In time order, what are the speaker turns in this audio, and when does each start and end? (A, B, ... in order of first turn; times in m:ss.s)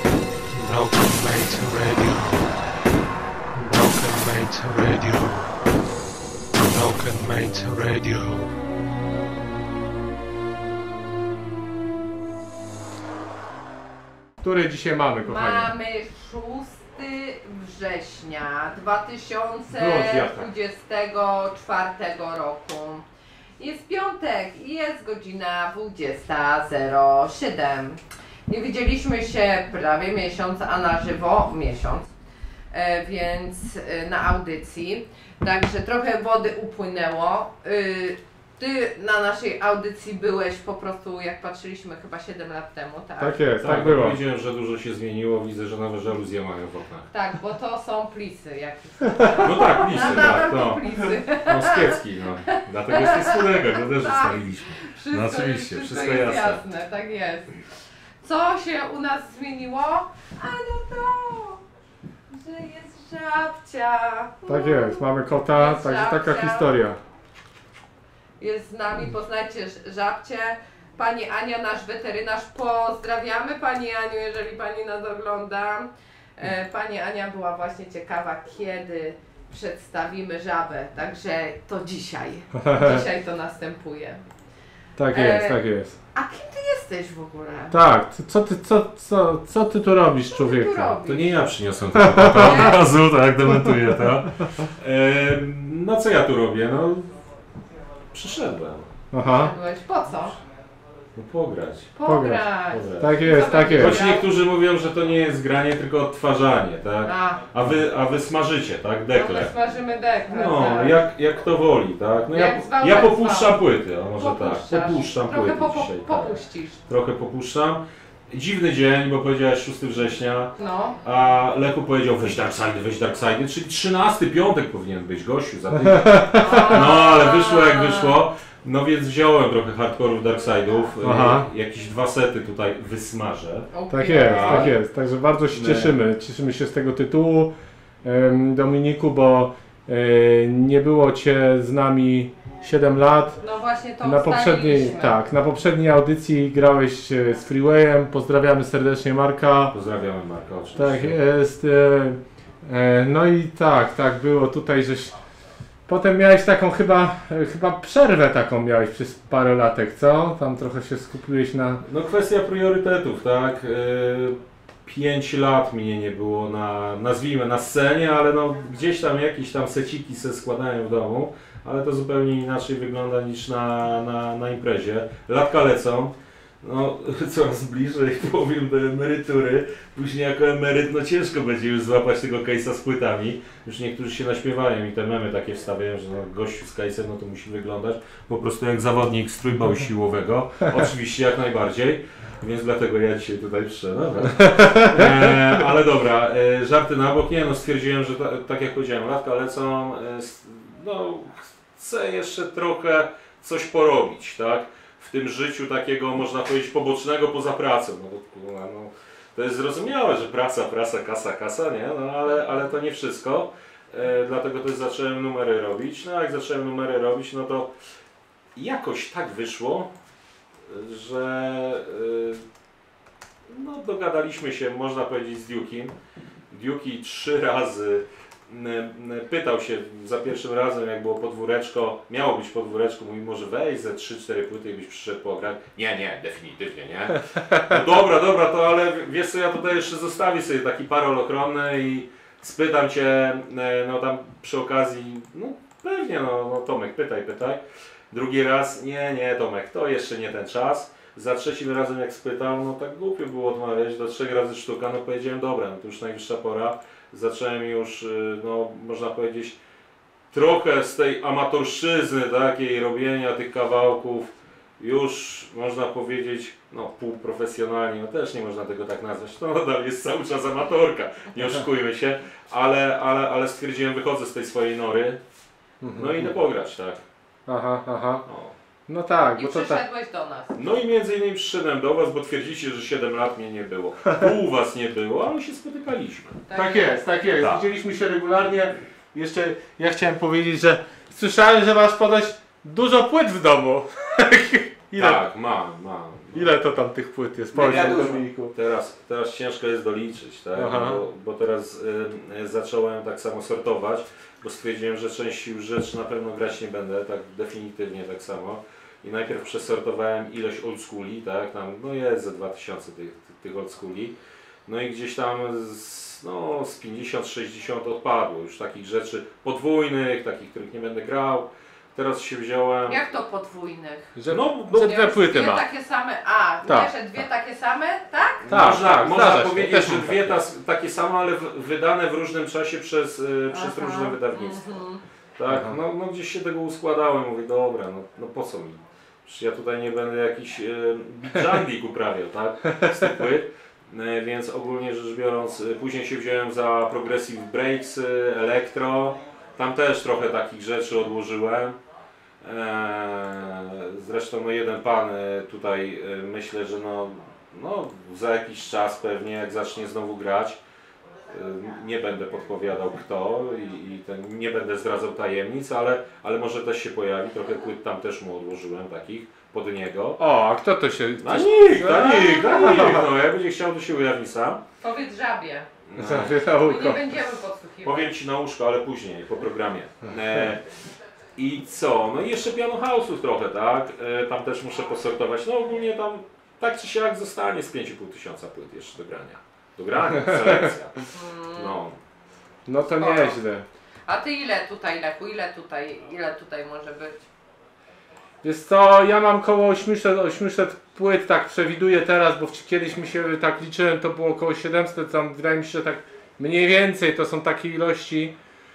0:00.5-0:02.6 A
0:03.6-0:05.5 A
0:06.6-0:08.5 A
0:14.4-0:15.7 B
0:15.2-0:23.1 C
0:19.8-0:20.5 B
0:23.6-0:32.1 C
0:32.7-0:43.4 C
0:43.2-0:44.2 B
0:43.6-0:47.1 D
0:47.1-0:52.0 C
0:49.4-0:50.8 D
0:51.4-0:56.6 D
0:52.9-0:57.6 C
0:58.2-1:01.6 C
1:02.3-1:06.8 C
1:04.5-1:07.0 B
1:08.4-1:24.2 C
1:22.6-1:23.0 B
1:25.0-1:26.0 B
1:25.1-1:25.6 C
1:26.1-1:27.8 C
1:27.7-1:30.9 B
1:30.3-1:31.6 C
1:31.0-1:37.2 D
1:32.0-1:32.7 B
1:32.3-1:32.8 C
1:38.1-1:38.9 D
1:39.1-1:39.5 B
1:39.2-1:40.4 C
1:41.2-1:41.9 D
1:42.0-1:44.3 C
1:42.0-1:42.4 B
1:42.7-1:43.2 D
1:43.0-1:44.0 B
1:43.8-1:49.5 D
1:47.0-1:47.5 C
1:49.1-1:51.0 C
1:50.3-2:14.7 D
1:52.3-1:56.8 C
2:00.6-2:01.0 C
2:05.8-2:06.8 B
2:06.4-2:08.2 C
2:11.0-2:11.5 B
2:13.7-2:14.7 C
2:13.9-2:17.5 B
2:15.5-2:16.0 D
2:18.0-2:23.4 B
2:23.4-2:25.2 C
2:24.0-2:29.7 B
2:29.7-2:31.2 D
2:30.8-2:35.2 B
2:35.9-2:41.8 B
2:41.8-3:37.7 D
3:14.4-3:15.5 B
3:38.6-3:39.9 D
3:40.7-3:42.4 D
3:43.5-3:45.9 D
3:46.5-4:19.6 D
4:20.3-4:35.2 D
4:35.8-4:36.4 B
4:36.0-4:37.0 D
4:37.5-4:38.2 B
4:38.3-4:38.6 D
4:38.9-4:39.8 B
4:39.4-4:40.5 C
4:40.6-4:46.4 D
4:46.5-4:47.1 C
4:46.5-4:55.2 B
4:47.4-4:47.7 D
4:55.0-4:56.5 D
4:56.3-4:58.5 B
4:57.5-5:23.0 D
5:00.6-5:01.0 B
5:22.9-5:24.1 C
5:24.2-5:25.6 B
5:24.3-5:24.7 D
5:24.7-5:28.7 C
5:26.6-5:26.9 B
5:28.4-5:34.8 D
5:28.5-5:30.4 B
5:33.5-5:35.0 C
5:35.4-5:51.8 D
5:35.5-5:35.8 B
5:42.6-5:43.2 B
5:52.4-6:00.6 D
6:01.2-6:10.2 D
6:10.2-6:13.1 B
6:11.2-6:14.6 D
6:12.0-6:12.8 C
6:14.8-6:15.7 C
6:15.9-6:16.4 D
6:16.0-6:17.1 B
6:16.6-6:18.1 C
6:17.8-6:20.6 D
6:21.4-6:31.0 D
6:30.1-6:30.7 B
6:31.1-6:31.8 C
6:31.5-6:32.0 D
6:32.7-6:33.6 B
6:33.0-6:33.4 C
6:34.1-6:37.3 C
6:38.4-6:48.3 B